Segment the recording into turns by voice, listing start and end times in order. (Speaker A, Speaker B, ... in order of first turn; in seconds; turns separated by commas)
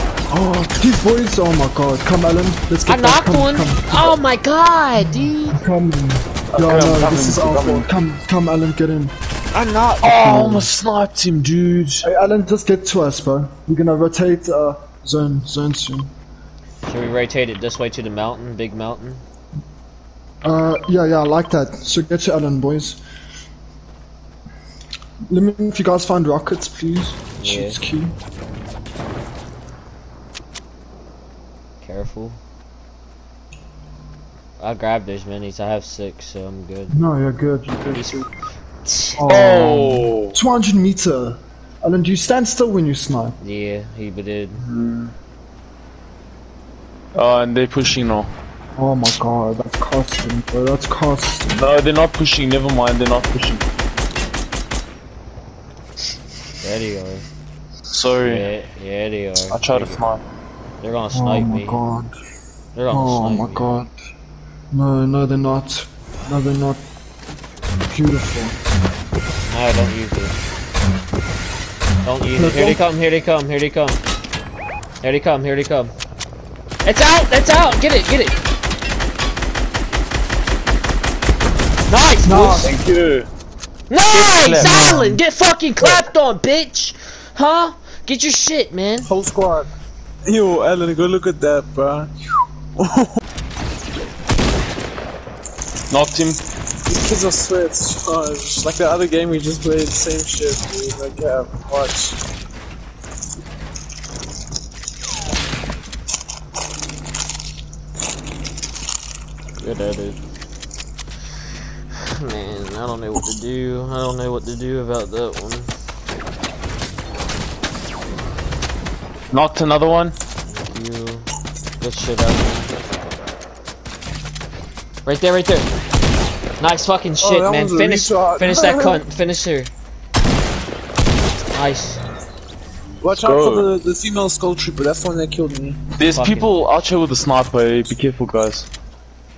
Speaker A: 0.3-4.2, Speaker B: 2.8-5.6, Speaker A: 5.0-9.2, Speaker C: 6.5-7.9, Speaker B: 9.5-10.2, Speaker C: 10.0-12.0, Speaker A: 10.0-10.7, Speaker A: 12.0-16.1, Speaker B: 16.8-19.2, Speaker A: 20.4-23.0, Speaker A: 25.3-28.1, Speaker B: 27.4-27.8, Speaker B: 31.8-32.4, Speaker B: 34.6-37.0, Speaker A: 36.9-38.2, Speaker B: 37.9-38.3, Speaker B: 38.8-39.4, Speaker A: 39.2-43.4, Speaker C: 39.3-40.4, Speaker B: 43.4-44.6, Speaker C: 44.6-45.1, Speaker C: 47.1-48.3, Speaker A: 48.8-51.6, Speaker C: 51.5-53.6, Speaker B: 56.6-57.3, Speaker C: 57.9-58.5, Speaker B: 58.2-60.0, Speaker C: 59.5-60.2, Speaker B: 60.8-61.8, Speaker A: 61.1-62.1, Speaker B: 62.7-63.7, Speaker A: 62.9-63.9, Speaker A: 64.7-66.8, Speaker A: 67.9-68.6, Speaker B: 69.5-70.3, Speaker B: 72.0-74.0, Speaker A: 72.3-72.8, Speaker B: 75.0-75.9, Speaker B: 76.8-78.4, Speaker B: 81.9-82.7, Speaker A: 82.2-82.7, Speaker C: 82.6-83.3, Speaker B: 83.9-89.1, Speaker C: 84.1-84.8, Speaker A: 84.6-85.2, Speaker D: 89.0-89.7, Speaker D: 90.2-92.1, Speaker D: 92.8-93.2, Speaker C: 95.9-96.4, Speaker D: 96.8-102.2, Speaker B: 109.6-110.2, Speaker B: 112.0-115.7, Speaker C: 119.3-120.2, Speaker B: 120.5-121.3, Speaker B: 121.8-122.8, Speaker B: 125.0-125.7, Speaker B: 126.6-129.7, Speaker D: 127.2-129.0, Speaker B: 131.5-132.0, Speaker D: 133.0-135.8, Speaker C: 133.0-133.7, Speaker C: 135.9-138.7, Speaker B: 136.1-136.8